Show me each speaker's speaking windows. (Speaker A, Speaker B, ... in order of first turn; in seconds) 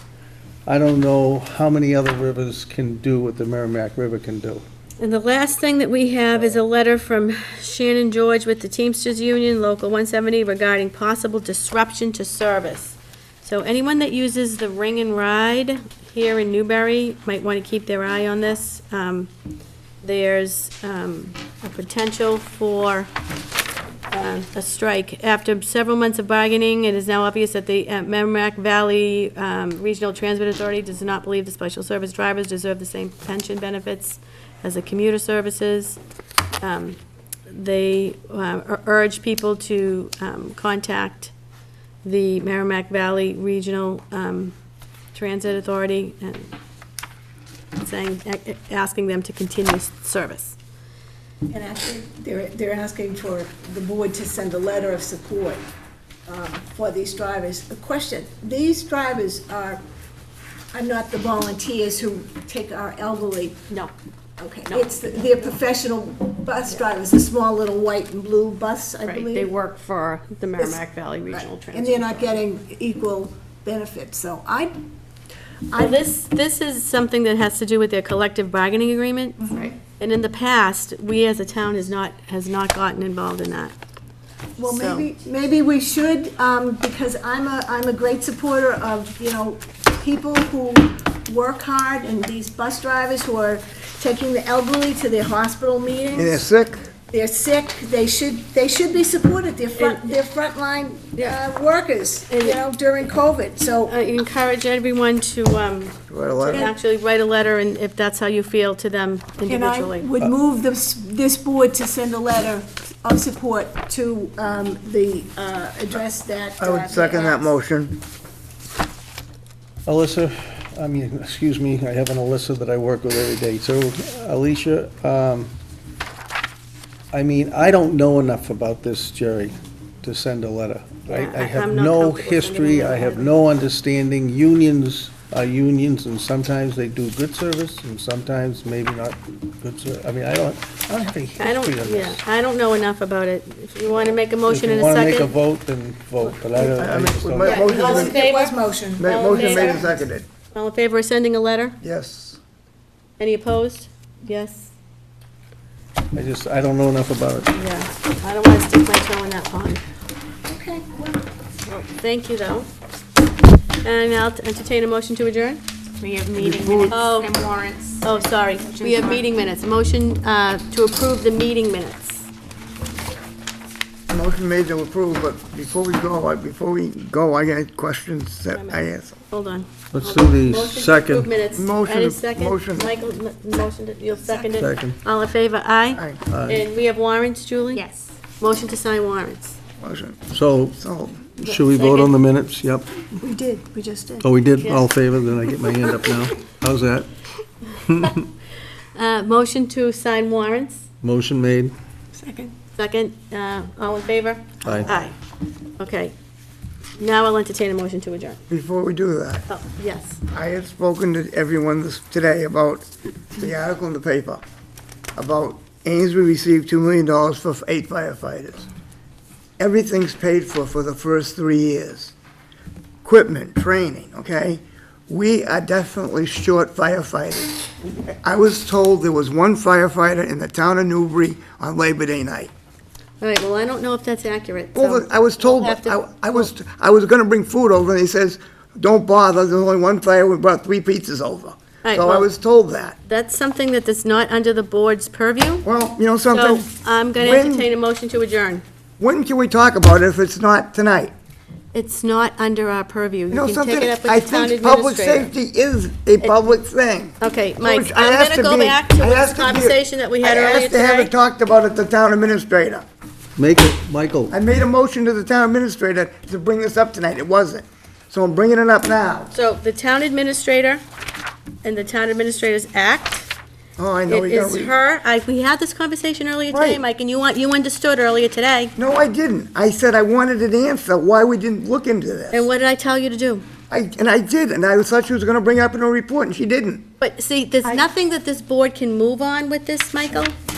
Speaker A: 0.7-4.6, 119.9-125.5, 127.1-142.2, 144.5-147.6, 156.1-157.5, 179.9-181.3, 184.6-185.0, 186.3-186.7, 190.3-190.8, 191.4-192.9, 194.2-197.1, 197.9-198.1, 201.0-201.7, 204.7-204.9, 263.4-264.4
Speaker B: 5.0-19.3, 20.0-23.1, 24.1-36.0, 36.6-41.3, 42.0-44.5, 45.1-46.5, 47.8-50.6, 64.7-65.5, 69.0-72.3, 75.8-83.8, 84.6-85.1, 99.8-100.1, 102.3-102.6, 103.8-110.1, 131.1-133.4, 141.4-145.4, 147.4-150.0, 150.5-151.8, 153.2-154.7, 157.5-159.8, 161.7-162.7, 163.8-165.6, 166.9-167.3, 168.0-172.3, 178.5-187.8, 188.4-189.6, 191.4-192.1, 194.6-194.9, 198.9-200.8, 202.8-205.2, 205.8-206.1, 207.0-208.4, 209.5-210.2, 233.2-236.5, 241.8-242.3, 243.1-245.7, 246.3-248.6, 251.7-255.3, 257.2-261.1, 269.3-270.8, 271.6-273.3, 274.1-278.7, 282.3-283.5, 287.0-290.4
Speaker C: 51.5-55.6, 56.3-59.8, 60.7-63.6, 64.4-69.5, 70.6-74.7, 75.7-76.0, 79.4-79.8, 84.6-96.5, 97.1-104.0, 109.5-117.5, 147.5-149.9, 160.5-161.2, 184.2-184.5, 193.2-194.3, 202.2-202.5
Speaker D: 96.1-96.9, 106.1-106.7, 116.6-118.0, 146.8-148.2, 149.0-150.3, 151.8-152.4, 166.4-167.0, 174.1-179.2, 181.6-182.9, 189.8-190.2, 190.8-191.2, 204.7-205.0, 208.5-209.5, 210.3-214.4, 215.2-218.7, 219.6-222.1, 223.0-232.5, 234.7-243.0, 245.6-247.7, 249.0-251.1, 253.3-262.9, 264.3-269.3, 273.8-274.7, 276.5-276.8, 278.8-282.5, 283.7-286.9
Speaker E: 166.0-169.2, 187.7-188.1